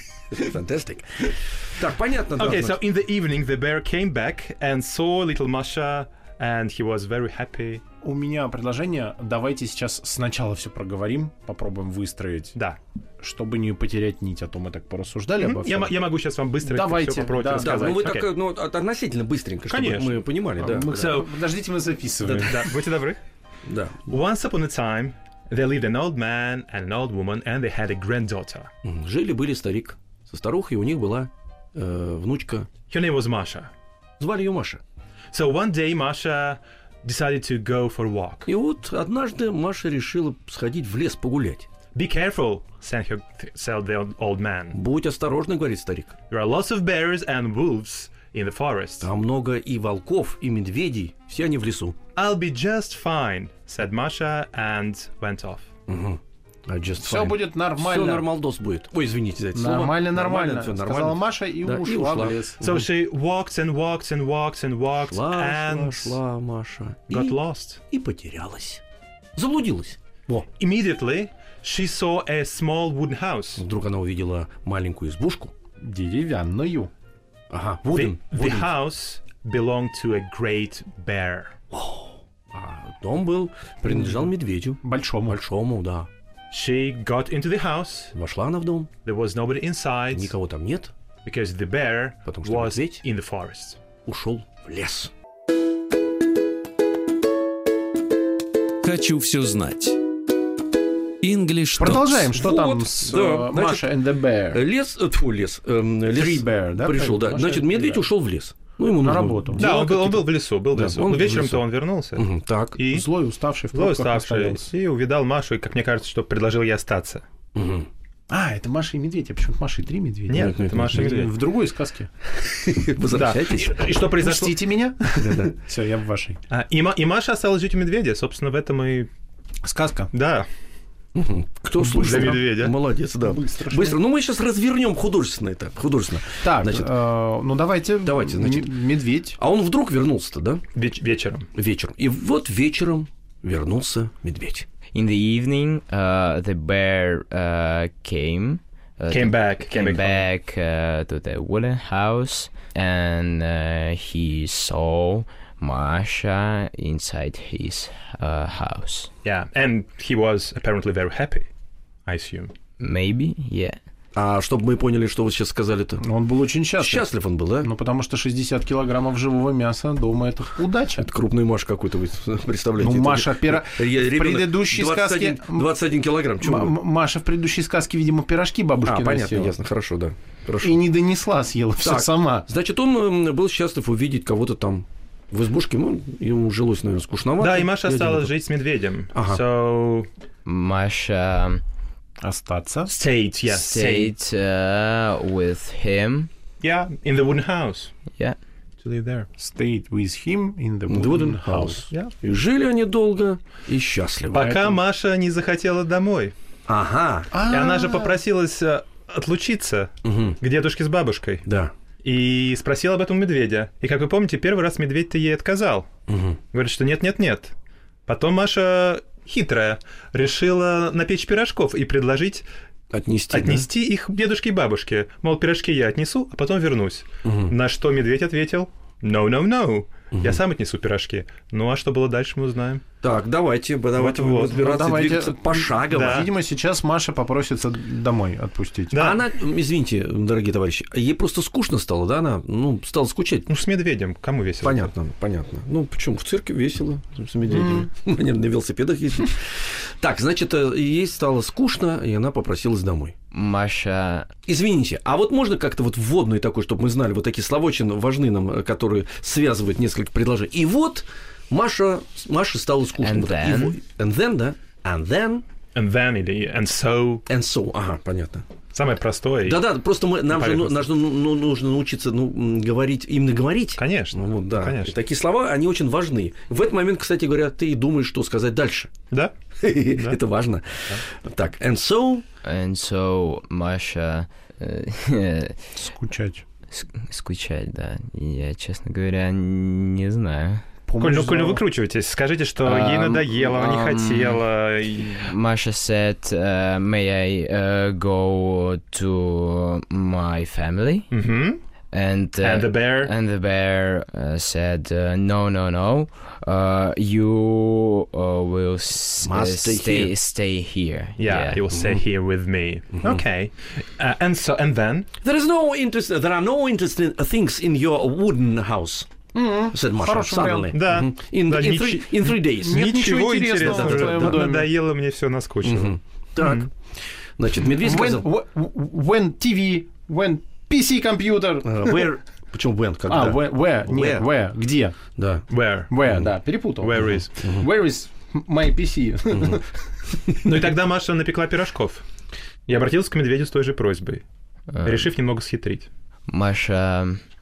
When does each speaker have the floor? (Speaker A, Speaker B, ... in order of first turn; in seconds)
Speaker A: 0.3-2.8, 17.5-21.1, 23.6-24.0, 28.8-32.7, 34.2-34.8, 38.5-41.7, 44.7-46.1, 49.0-52.0, 55.9-62.8, 65.1-67.4, 67.9-68.8, 69.3-70.5, 73.6-75.5, 77.5-78.7, 81.7-86.1, 88.1-88.9, 90.1-90.9, 92.2-93.0, 94.0-95.1, 101.8-104.0, 104.5-111.6, 112.2-112.8, 117.5-117.9, 120.3-121.3, 122.3-123.9, 125.1-125.5, 131.1-136.9, 138.0-138.8, 139.3-140.6, 141.5-144.7, 164.1-166.0, 166.8-167.7, 171.0-176.7, 178.8-180.8, 181.8-188.3, 189.1-189.4, 200.9-204.5, 206.7-207.3, 210.0-210.4, 211.4-211.7, 216.1-216.4, 222.9-223.7, 227.2-227.5, 230.1-230.4, 233.0-236.3, 238.9-243.5, 244.6-253.1, 254.4-265.4, 267.3-268.4, 269.4-278.9, 279.6-282.2, 309.2-310.1, 315.2-319.1, 319.7-323.0, 323.6-324.5, 325.6-328.2, 331.6-334.2, 335.1-335.5
Speaker B: 2.4-7.8, 15.4-18.3, 19.7-20.3, 20.9-21.3, 22.2-23.2, 24.1-28.7, 32.9-33.7, 35.3-38.5, 41.9-44.8, 46.3-49.1, 52.1-55.7, 62.6-66.2, 67.1-67.8, 70.6-73.6, 77.9-81.5, 86.5-88.1, 89.0-90.3, 91.2-93.8, 109.6-113.1, 113.7-117.2, 120.3-121.3, 123.1-124.7, 126.5-129.1, 130.1-130.5, 131.8-132.8, 140.7-141.5, 149.1-150.2, 159.2-161.5, 162.1-162.5, 187.4-190.1, 192.9-194.1, 196.6-197.9, 198.8-199.3, 204.3-206.3, 207.5-211.4, 212.0-215.9, 216.5-217.5, 218.1-222.4, 223.3-232.8, 233.9-234.6, 235.9-236.3, 238.9-239.2, 243.5-244.9, 265.7-267.2, 268.7-269.7, 270.3-270.9, 273.8-274.9, 279.9-280.2, 291.0-295.3, 301.1-301.6, 302.4-303.1, 311.2-315.1, 320.7-326.7, 335.5-335.9, 336.8-337.5, 340.4-342.0, 342.7-344.2, 344.8-345.9
Speaker C: 8.0-12.5, 13.2-15.9, 16.6-18.1, 20.6-22.7, 57.0-58.3, 59.5-62.6, 75.8-76.9, 83.8-84.3, 84.8-85.4, 101.8-104.6, 106.1-108.1, 109.0-109.8, 112.9-114.7, 118.3-122.1, 124.0-126.4, 129.6-130.1, 131.8-132.4, 133.2-134.0, 136.4-139.4, 166.0-171.1, 172.8-175.7, 176.4-179.6, 180.6-182.5, 192.2-192.9, 199.4-201.9, 204.4-204.8, 207.3-208.2, 234.5-239.0, 247.5-247.9, 285.8-286.4, 290.9-291.6, 319.3-320.8, 322.6-324.7, 327.6-332.1, 333.1-334.9, 335.9-339.8
Speaker D: 98.8-100.0, 101.2-102.3
Speaker E: 144.9-159.1, 162.8-163.8, 190.4-191.6, 193.5-196.3, 253.3-254.3, 263.0-263.8, 282.4-285.7, 286.7-290.6, 292.6-294.4, 295.2-301.1, 301.9-311.6, 344.7-345.1, 346.3-347.2